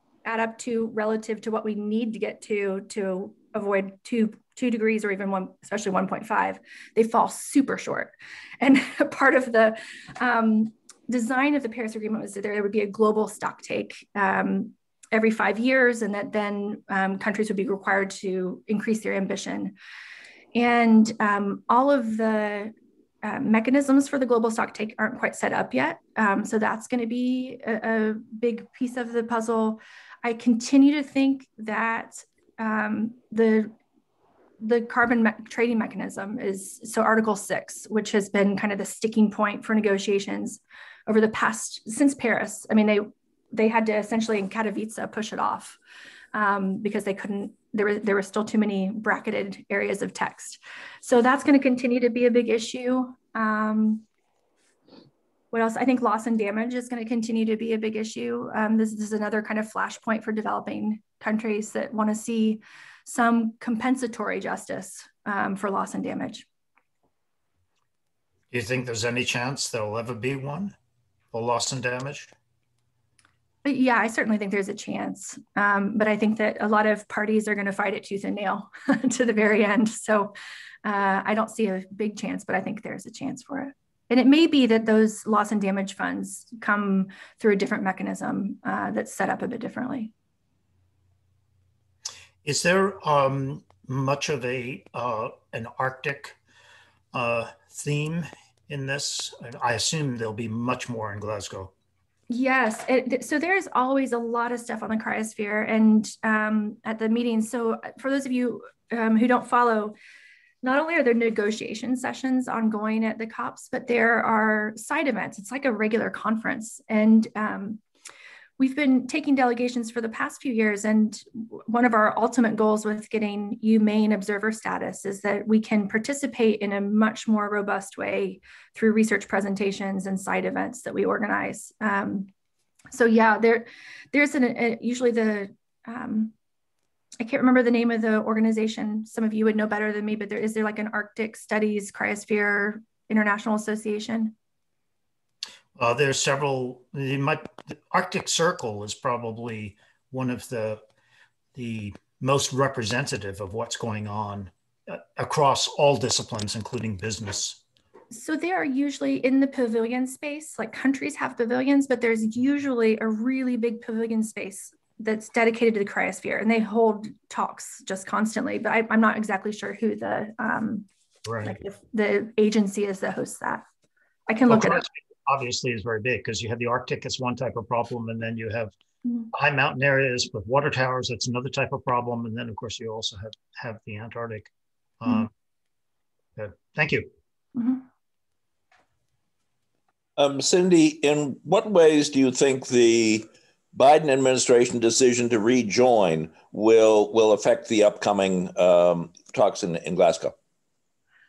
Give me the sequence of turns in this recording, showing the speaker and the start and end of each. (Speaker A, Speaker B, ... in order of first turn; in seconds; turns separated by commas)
Speaker A: 0.2-19.8, Speaker A: 20.5-33.7, Speaker A: 34.6-45.8, Speaker A: 46.3-54.0, Speaker A: 55.5-66.5, Speaker B: 68.5-70.8, Speaker B: 71.3-72.3, Speaker A: 73.7-90.1, Speaker B: 92.4-96.4, Speaker B: 97.1-101.7, Speaker A: 102.3-110.0, Speaker A: 110.6-117.8, Speaker A: 118.6-132.3, Speaker A: 132.9-136.3, Speaker A: 137.2-144.3, Speaker B: 145.8-150.8, Speaker B: 151.5-157.6, Speaker A: 158.1-170.9, Speaker B: 171.3-171.5, Speaker A: 171.4-173.7, Speaker A: 174.3-174.8, Speaker B: 174.5-178.7, Speaker B: 179.3-185.3, Speaker B: 186.4-187.1, Speaker A: 187.6-187.8, Speaker C: 190.2-200.3